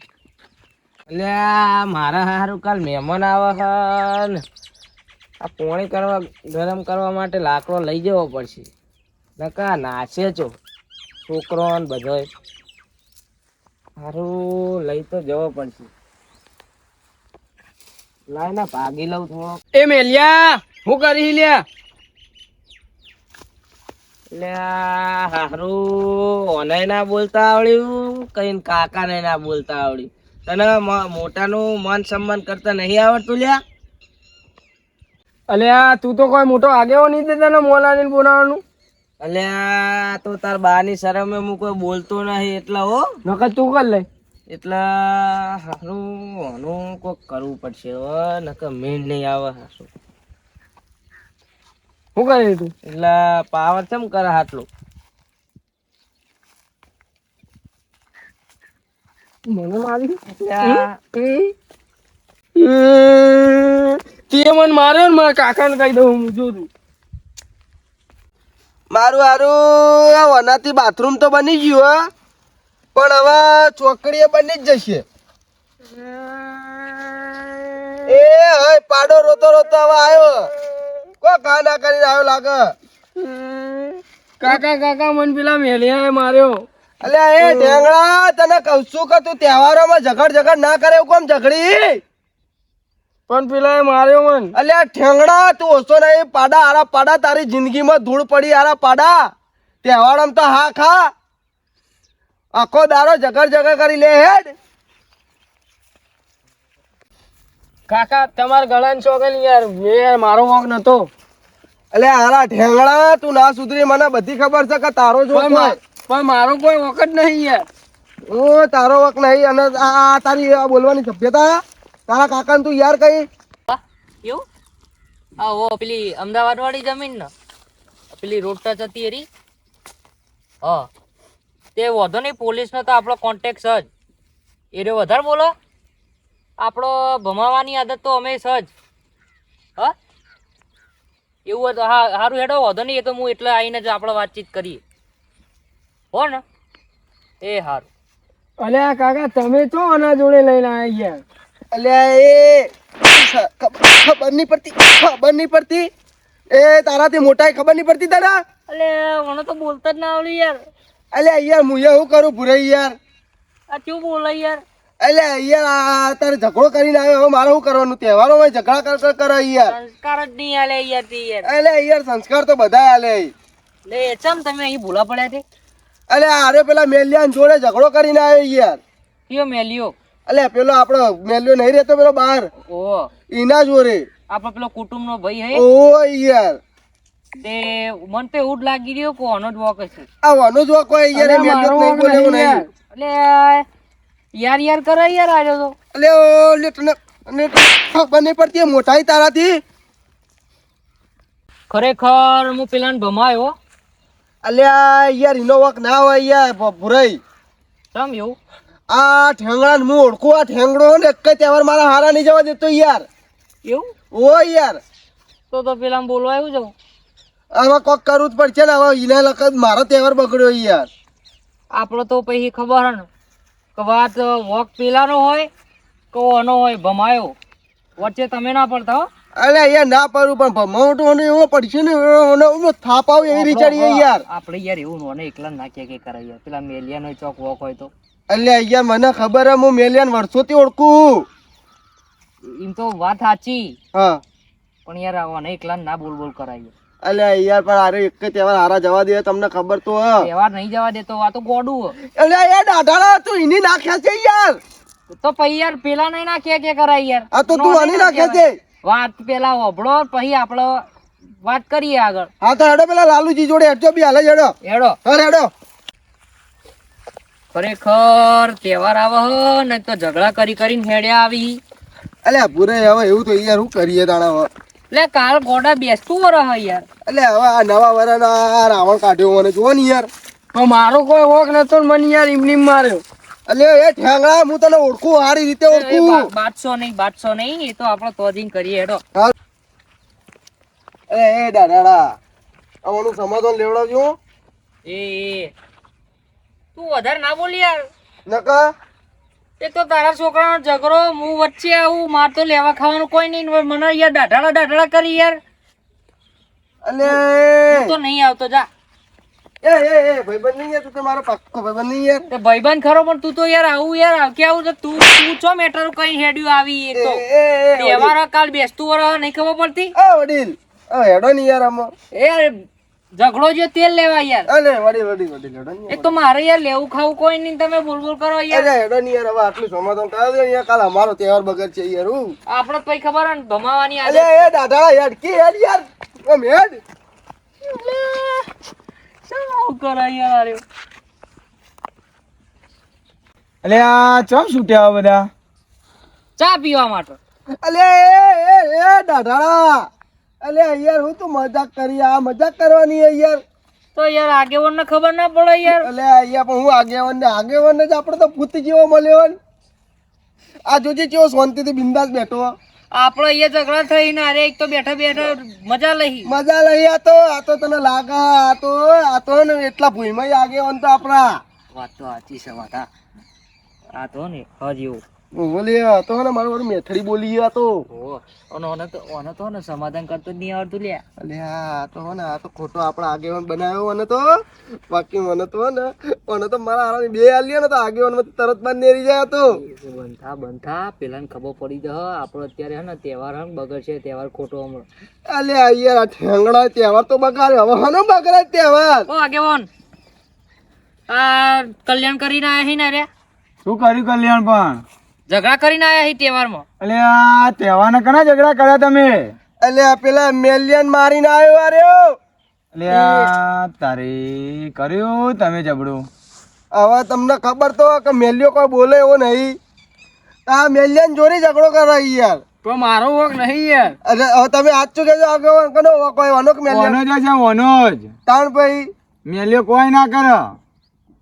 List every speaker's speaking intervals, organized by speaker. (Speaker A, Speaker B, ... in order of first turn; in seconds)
Speaker A: 1.1-4.4, 5.4-8.7, 9.4-10.5, 11.3-12.3, 14.0-15.9, 18.3-19.6, 24.3-33.6, 39.2-43.1, 44.5-49.9, 52.9-54.7, 60.4-60.9
Speaker B: 19.7-21.6, 35.5-38.6, 43.2-44.0, 52.1-52.7, 59.5-61.5, 62.5-66.7, 76.0-77.9, 83.2-86.7, 87.4-87.8, 93.3-94.5, 107.9-111.1, 115.3-117.7, 148.6-151.2, 191.1-192.7, 280.5-283.0, 413.0-413.3, 422.6-423.9
Speaker C: 68.9-72.0, 72.9-75.0, 78.0-80.5, 81.2-82.7, 87.0-92.0, 94.5-99.3, 99.8-101.1, 102.5-104.5, 111.9-115.8, 118.3-123.2, 151.7-155.9, 156.5-158.4, 161.1-162.9, 165.0-169.7, 171.4-173.3, 176.1-178.8, 180.3-182.5, 183.3-184.1, 185.5-186.6, 190.2-192.6, 195.9-199.6, 204.4-207.2, 208.9-213.1, 214.1-214.8, 217.5-220.9, 229.3-234.2, 238.3-241.2, 243.9-244.2, 247.0-250.3, 252.1-254.6, 257.3-258.6, 262.4-265.5, 272.2-274.5, 277.1-280.1, 283.5-286.2, 291.1-292.1, 292.8-294.1, 298.3-298.7, 306.8-307.9, 309.6-312.2, 316.9-318.1, 320.0-321.9, 324.5-326.1, 328.5-332.3, 334.1-336.8, 347.6-349.9, 350.4-353.4, 355.8-359.3, 360.7-362.5, 366.3-371.4, 375.3-377.8, 381.2-384.3, 384.9-389.6, 395.3-399.1, 409.6-412.1, 416.7-419.6, 420.5-422.4, 424.0-427.0, 428.3-428.9
Speaker D: 123.7-124.4, 125.4-127.3, 128.1-129.3, 130.6-130.9, 131.7-133.9, 134.7-135.5, 136.6-138.7, 141.4-144.8, 146.1-146.4, 147.4-147.8, 158.7-160.6, 163.7-164.6, 169.7-171.5, 173.9-175.4, 179.3-179.9, 182.7-183.1, 184.3-185.6, 187.4-190.1, 192.9-193.6, 194.3-195.7, 201.7-203.5, 207.9-208.4, 213.6-213.9, 215.5-216.7, 221.7-223.1, 223.7-225.5, 226.1-227.3, 228.0-229.1, 233.2-237.9, 242.5-243.8, 244.8-246.7, 250.2-251.9, 255.1-260.8, 261.4-262.3, 264.6-265.0, 267.5-271.6, 274.9-276.8, 285.7-289.0, 294.8-295.5, 296.7-297.9, 299.6-305.4, 307.7-308.7, 312.3-317.2, 317.8-319.9, 322.1-322.5, 323.1-324.5, 325.9-328.7, 332.5-334.5, 337.6-338.5, 339.2-340.6, 346.4-347.2, 353.9-355.9, 362.9-366.3, 371.7-372.9, 374.0-375.0, 377.9-381.0, 389.5-394.9, 399.1-399.7, 401.1-403.1, 405.3-406.6
Speaker E: 343.6-345.3, 403.6-404.8, 406.8-409.3, 412.7-416.1, 426.7-428.1, 429.2-430.6